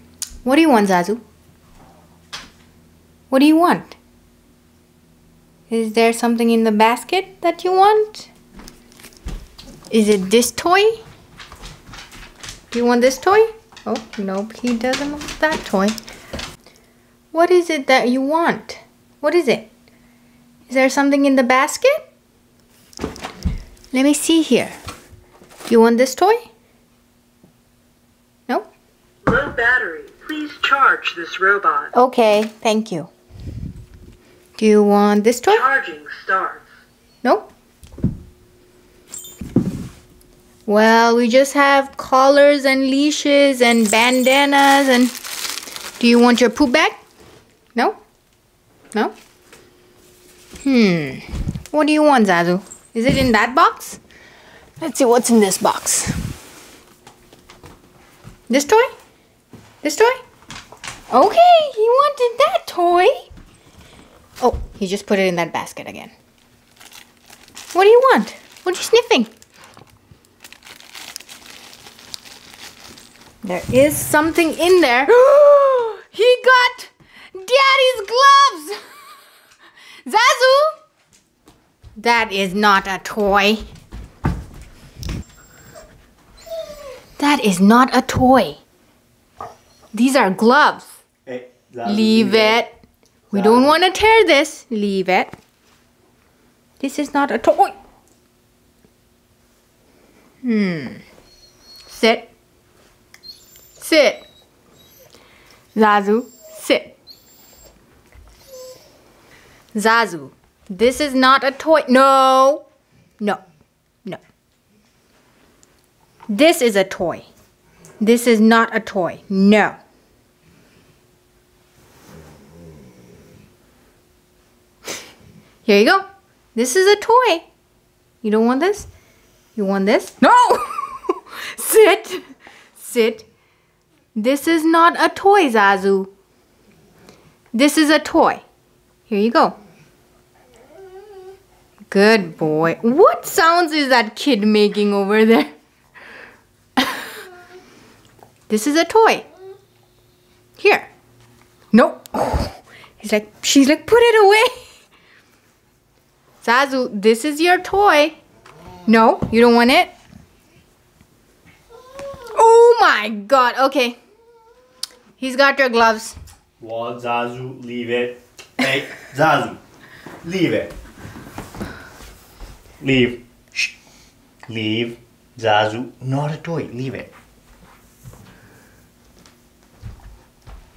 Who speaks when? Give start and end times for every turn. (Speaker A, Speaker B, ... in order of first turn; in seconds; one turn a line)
Speaker A: 0.4-1.2
Speaker A: 3.3-4.0
Speaker A: 5.7-8.3
Speaker A: 9.9-11.0
Speaker A: 12.7-16.0
Speaker A: 17.3-19.7
Speaker A: 20.7-22.0
Speaker A: 23.9-24.8
Speaker A: 25.6-26.5
Speaker B: 29.2-31.9
Speaker A: 31.9-33.1
Speaker A: 34.6-35.8
Speaker B: 35.6-36.6
Speaker A: 37.2-37.5
Speaker A: 40.6-45.1
Speaker A: 46.0-47.0
Speaker A: 50.6-54.0
Speaker A: 54.8-56.3
Speaker A: 58.5-58.9
Speaker A: 59.8-60.2
Speaker A: 61.1-63.3
Speaker A: 64.4-66.1
Speaker A: 67.7-69.3
Speaker A: 73.4-79.0
Speaker A: 80.0-80.8
Speaker A: 82.0-83.6
Speaker A: 87.2-88.6
Speaker A: 89.9-91.0
Speaker C: 91.2-92.6
Speaker A: 91.8-92.8
Speaker A: 93.3-95.3
Speaker C: 93.3-93.8
Speaker A: 96.8-97.8
Speaker A: 100.4-101.0
Speaker A: 101.8-102.3
Speaker A: 103.8-104.3
Speaker A: 105.7-107.0
Speaker A: 109.7-112.7
Speaker A: 116.3-117.3
Speaker A: 118.0-119.8
Speaker A: 125.6-127.5
Speaker A: 128.2-128.9
Speaker A: 129.5-132.2
Speaker A: 132.8-133.2
Speaker A: 134.1-136.1
Speaker A: 137.5-138.4
Speaker A: 139.1-139.6
Speaker A: 141.9-145.5
Speaker A: 146.8-147.1
Speaker A: 148.5-149.3
Speaker A: 150.6-150.9
Speaker A: 151.7-154.5
Speaker A: 156.4-158.2
Speaker A: 158.8-159.9
Speaker A: 162.2-164.0
Speaker A: 165.2-166.1
Speaker C: 166.6-169.6
Speaker C: 170.2-170.7
Speaker C: 172.8-173.7
Speaker C: 174.4-177.1